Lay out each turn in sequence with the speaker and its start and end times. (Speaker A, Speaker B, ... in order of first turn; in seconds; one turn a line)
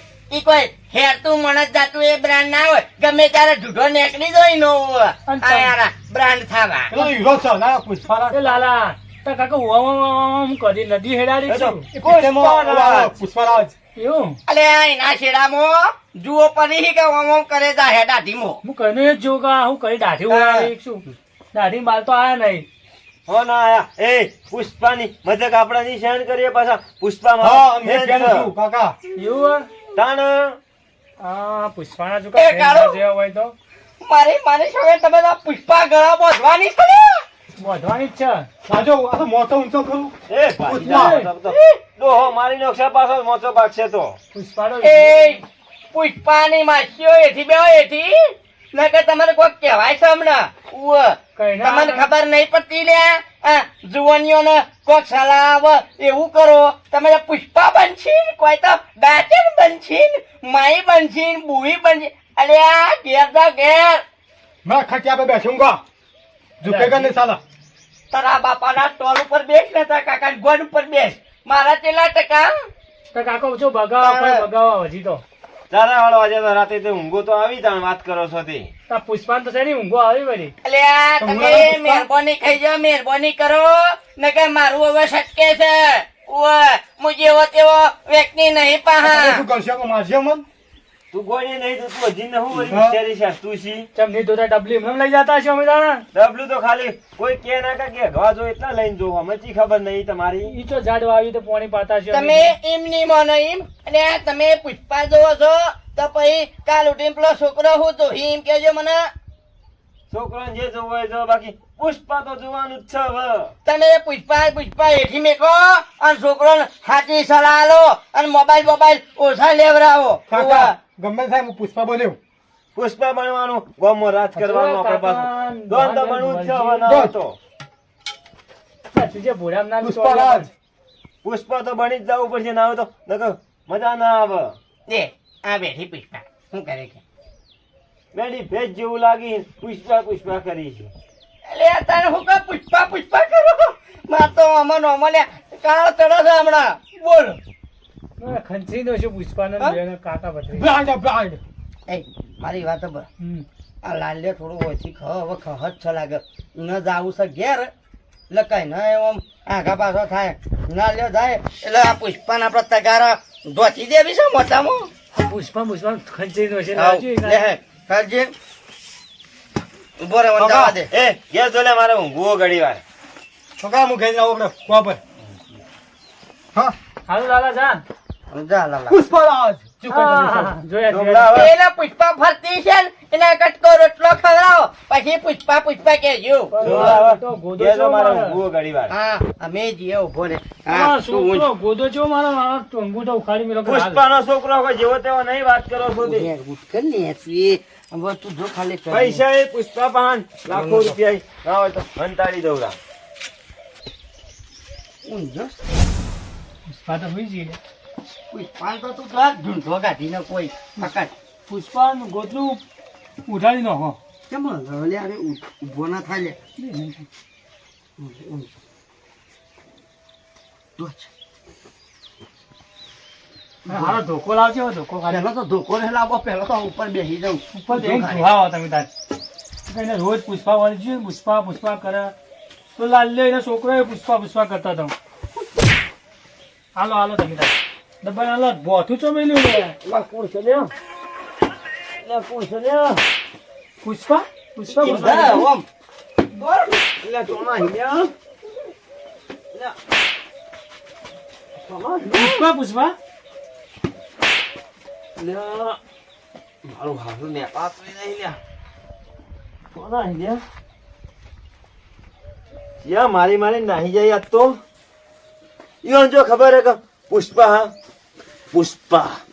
Speaker A: 0.3-7.0
Speaker B: 5.2-5.7
Speaker C: 6.9-8.5
Speaker B: 8.3-11.9
Speaker D: 11.5-13.2
Speaker C: 11.9-13.7
Speaker B: 13.9-14.4
Speaker A: 14.5-18.6
Speaker B: 18.6-22.6
Speaker A: 20.3-20.7
Speaker D: 23.3-28.5
Speaker C: 27.4-29.0
Speaker B: 29.1-29.7
Speaker D: 29.9-30.6
Speaker B: 31.2-33.5
Speaker A: 32.3-33.0
Speaker A: 34.0-37.2
Speaker B: 37.6-38.5
Speaker C: 38.6-40.1
Speaker D: 40.3-44.1
Speaker B: 40.7-41.3
Speaker C: 40.7-41.2
Speaker A: 41.5-41.8
Speaker B: 44.3-45.4
Speaker A: 44.8-45.4
Speaker A: 45.9-64.0
Speaker B: 51.4-52.1
Speaker C: 64.6-65.8
Speaker C: 66.6-67.4
Speaker B: 66.7-67.1
Speaker A: 68.1-72.5
Speaker B: 73.1-75.2
Speaker A: 74.0-74.5
Speaker D: 75.7-78.7
Speaker B: 78.9-80.5
Speaker A: 80.6-89.4
Speaker C: 81.2-82.1
Speaker C: 89.0-90.4
Speaker D: 91.1-93.9
Speaker C: 92.5-93.0
Speaker B: 93.9-96.0
Speaker D: 96.1-100.6
Speaker B: 100.5-102.5
Speaker A: 102.1-109.1
Speaker D: 110.1-113.5
Speaker A: 113.6-120.8
Speaker C: 120.3-122.2
Speaker D: 122.7-127.4
Speaker B: 124.3-127.0
Speaker C: 126.8-127.1
Speaker B: 128.9-130.5
Speaker C: 129.8-130.5
Speaker D: 131.2-134.6
Speaker A: 134.9-137.0
Speaker D: 138.1-140.9
Speaker A: 141.5-147.4
Speaker B: 148.2-150.7
Speaker C: 150.5-151.4
Speaker A: 151.9-153.1
Speaker B: 153.2-153.4
Speaker A: 153.8-157.7
Speaker A: 158.3-164.9
Speaker B: 165.2-167.4
Speaker A: 166.7-168.3
Speaker A: 170.0-170.9
Speaker D: 170.4-172.8
Speaker C: 173.6-175.0
Speaker B: 177.1-177.8
Speaker A: 178.3-179.0
Speaker C: 178.9-180.5
Speaker B: 179.9-181.4
Speaker D: 180.9-181.5
Speaker A: 181.3-187.0
Speaker B: 186.5-188.4
Speaker D: 186.6-188.9
Speaker A: 188.9-191.4
Speaker B: 190.7-194.0
Speaker D: 193.6-196.3
Speaker A: 196.0-199.2
Speaker D: 198.9-202.8
Speaker A: 200.5-201.0
Speaker A: 205.0-205.7
Speaker B: 206.7-207.6
Speaker A: 208.3-211.1
Speaker B: 211.5-212.6
Speaker B: 213.2-214.0
Speaker A: 214.3-216.4
Speaker B: 216.6-217.1
Speaker A: 218.0-218.5
Speaker A: 220.8-221.1
Speaker B: 223.7-225.2
Speaker A: 225.1-228.3
Speaker B: 227.5-228.9
Speaker B: 229.7-232.1
Speaker B: 232.7-234.9
Speaker B: 236.7-239.8
Speaker D: 239.8-240.7
Speaker D: 241.9-243.0
Speaker B: 243.8-245.5
Speaker D: 244.8-245.5
Speaker A: 244.8-245.7
Speaker D: 246.3-248.1
Speaker D: 251.6-252.4
Speaker B: 252.1-252.9
Speaker D: 255.2-255.8
Speaker D: 256.6-258.4
Speaker D: 259.7-260.4
Speaker D: 262.8-264.6
Speaker D: 265.8-267.7
Speaker D: 268.5-269.2